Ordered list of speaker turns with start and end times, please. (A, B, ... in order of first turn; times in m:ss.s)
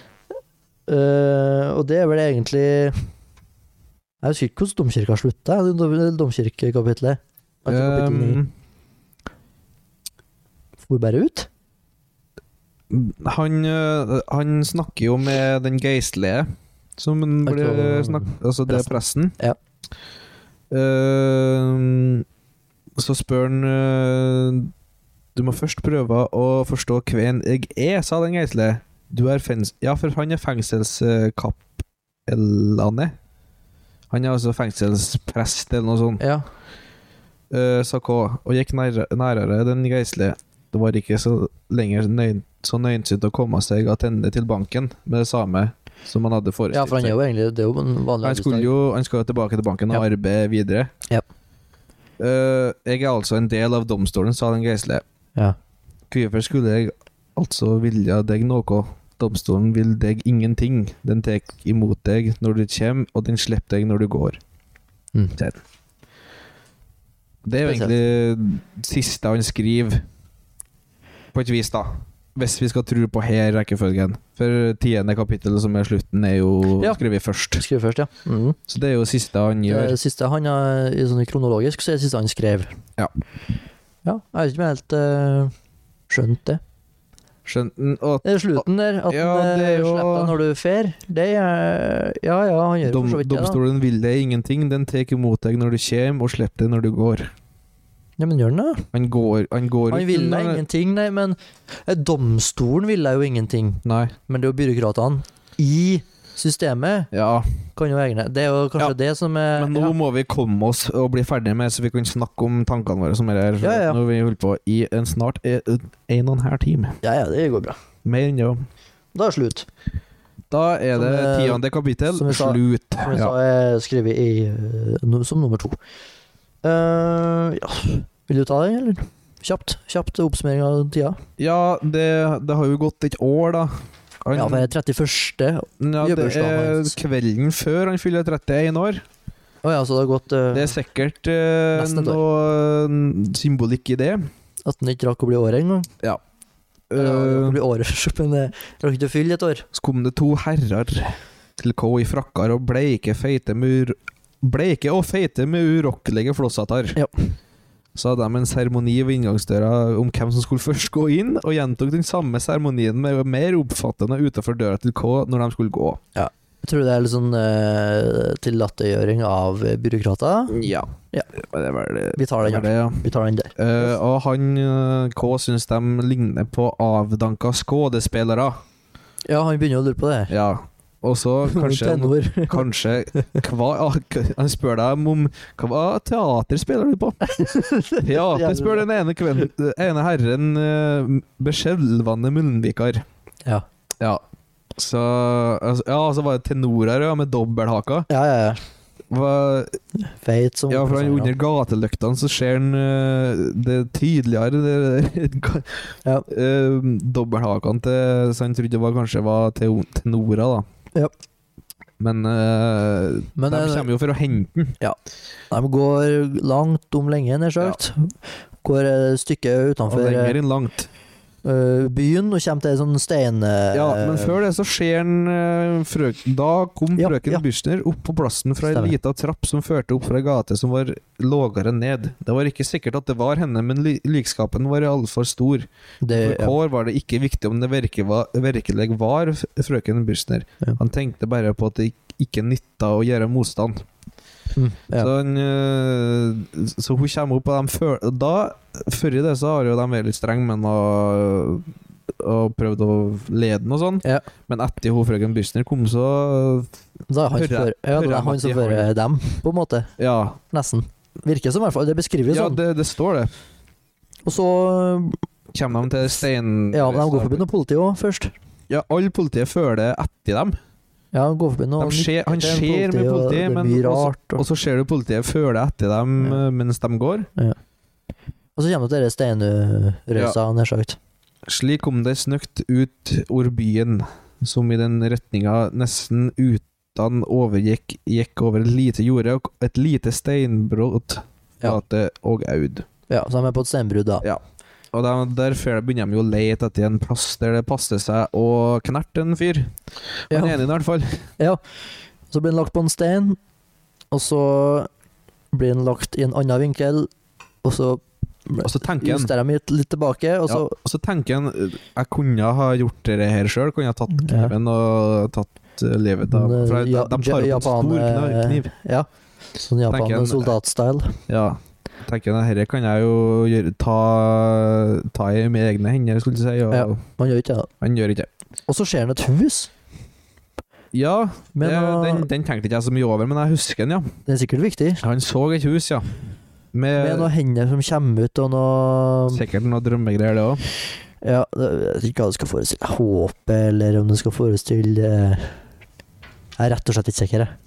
0:00.9-0:03.0 A
0:04.2-0:08.4 A
0:07.7-0:08.5 B
0:10.9-0:11.5 A
0:12.9-0:19.3 B
0:17.4-0:19.6 A
0:20.7-0:22.2 B
0:23.0-0:24.7 B
0:25.3-0:33.1 B
0:34.1-0:36.2 B
0:36.2-0:36.4 A
0:37.5-0:47.1 B
0:46.7-0:48.7 A
0:48.2-0:50.9 B
0:52.2-0:55.0 B
0:56.1-1:04.4 B
1:07.4-1:10.0 B
1:07.6-1:07.9 A
1:11.3-1:17.6 B
1:17.6-1:18.6 A
1:18.7-1:20.0 B
1:19.7-1:22.7 A
1:24.0-1:25.5 A
1:26.1-1:26.6 A
1:27.4-1:30.4 B
1:28.2-1:33.6 A
1:32.8-1:37.3 B
1:38.2-1:38.9 A
1:38.9-1:40.6 B
1:39.9-1:47.1 A
1:43.8-1:44.1 B
1:47.1-1:47.5 B
1:47.8-1:49.9 A
1:49.5-1:57.0 B
1:53.6-1:54.0 A
1:57.0-1:57.8 A
1:58.0-1:58.6 B
1:59.1-1:59.7 A
2:00.5-2:03.3 B
2:00.9-2:05.8 A
2:06.6-2:11.2 A
2:11.4-2:14.7 B
2:14.3-2:17.0 A
2:15.8-2:19.0 B
2:19.6-2:20.8 A
2:20.5-2:24.2 B
2:21.7-2:22.2 A
2:24.6-2:25.9 A
2:26.9-2:27.6 B
2:27.0-2:29.6 A
2:29.7-2:37.0 B
2:37.0-2:37.3 A
2:37.9-2:46.0 B
2:46.2-2:51.3 A
2:50.5-2:53.0 B
2:52.2-2:53.6 A
2:53.6-2:58.6 B
2:59.2-3:00.3 A
3:00.3-3:07.3 B
3:01.4-3:03.4 A
3:07.2-3:08.9 A
3:08.0-3:13.0 B
3:14.8-3:18.1 B
3:18.1-3:18.6 A
3:19.1-3:19.8 B
3:20.0-3:21.3 A
3:20.7-3:30.6 B
3:32.0-3:34.8 B
3:33.4-3:33.9 A
3:35.5-3:40.4 A
3:39.9-3:40.9 B
3:41.4-3:44.4 A
3:43.7-4:03.8 B
3:47.0-3:47.4 A
3:48.7-3:48.9 A
3:56.0-3:56.5 A
4:04.6-4:05.1 A
4:05.0-4:16.7 B
4:17.1-4:19.9 A
4:17.3-4:18.9 B
4:20.0-4:20.4 B
4:20.5-4:22.6 A
4:22.3-4:23.3 B
4:24.2-4:25.2 A
4:25.5-4:27.4 B
4:26.7-4:28.3 A
4:28.7-4:30.6 B
4:31.1-4:34.4 A
4:31.8-4:37.3 B
4:38.6-4:41.0 A
4:41.4-4:52.9 B
4:53.1-4:54.2 A
4:54.9-4:59.7 B
5:00.3-5:01.3 B
5:00.3-5:00.6 A
5:02.3-5:03.4 A
5:04.1-5:04.9 A
5:05.5-5:07.1 A
5:07.6-5:10.8 A
5:08.6-5:09.3 B
5:10.5-5:18.7 B
5:14.1-5:14.5 A
5:16.3-5:19.1 A
5:19.6-5:21.2 A
5:19.9-5:20.5 B
5:21.3-5:27.0 B
5:26.7-5:27.7 A
5:27.8-5:28.3 B
5:28.7-5:29.7 A
5:30.9-5:34.1 B
5:31.6-5:32.3 A
5:34.2-5:35.0 A
5:35.0-5:36.2 B
5:36.7-5:37.3 B
5:37.0-5:39.4 A
5:39.3-5:40.6 B
5:41.2-5:45.6 A
5:46.6-5:47.5 A